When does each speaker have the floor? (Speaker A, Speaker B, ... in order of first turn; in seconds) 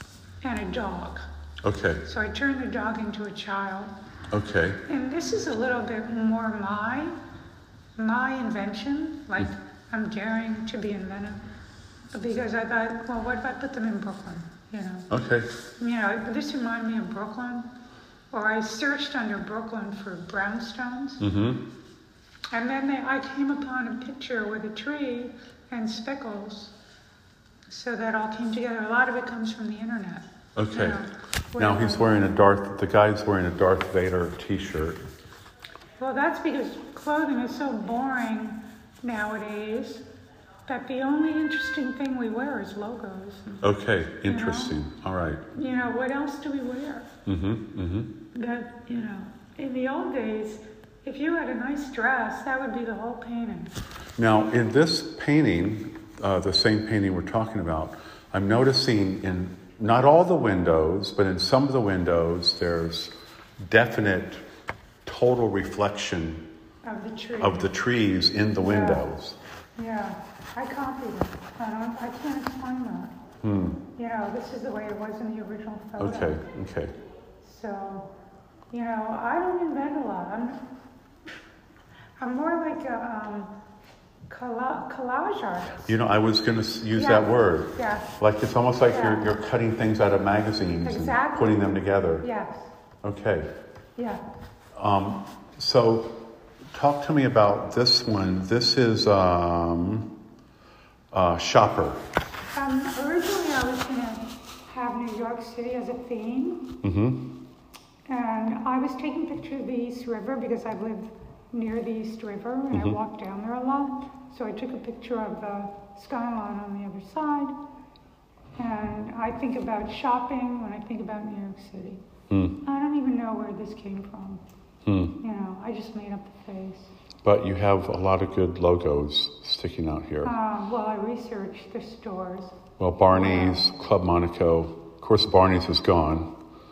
Speaker A: 0.4-1.3, 2.0-3.9, 4.9-7.2, 8.0-11.4, 12.1-15.1, 15.8-17.7, 18.3-21.2, 22.5-26.7, 27.7-32.3, 36.0-40.1, 40.7-43.6, 44.3-44.7, 45.5-47.1, 48.3-53.7, 66.8-67.7, 68.6-69.0, 69.8-73.2, 74.0-76.4, 77.4-78.1, 78.7-80.6, 82.2-83.5, 84.3-85.9, 87.0-88.1, 88.9-89.3, 90.8-92.7, 94.0-94.2, 102.5-106.7, 108.1-117.5, 118.6-122.0, 122.6-124.4, 125.2-126.9, 130.2-132.6, 133.1-133.6
Speaker B: 1.6-2.0, 4.3-4.8, 15.1-15.5, 21.2-21.6, 30.6-31.0, 31.6-35.0, 43.6-45.4, 47.3-48.1, 54.2-64.4, 65.0-66.4, 67.4-69.4, 73.4-73.8, 76.0-76.9, 85.8-92.2, 93.0-93.5, 94.7-96.2, 96.7-100.1, 101.1-102.0, 106.8-107.2, 112.7-113.0, 122.3-122.6, 124.8-125.2, 127.2-130.3, 132.8-136.3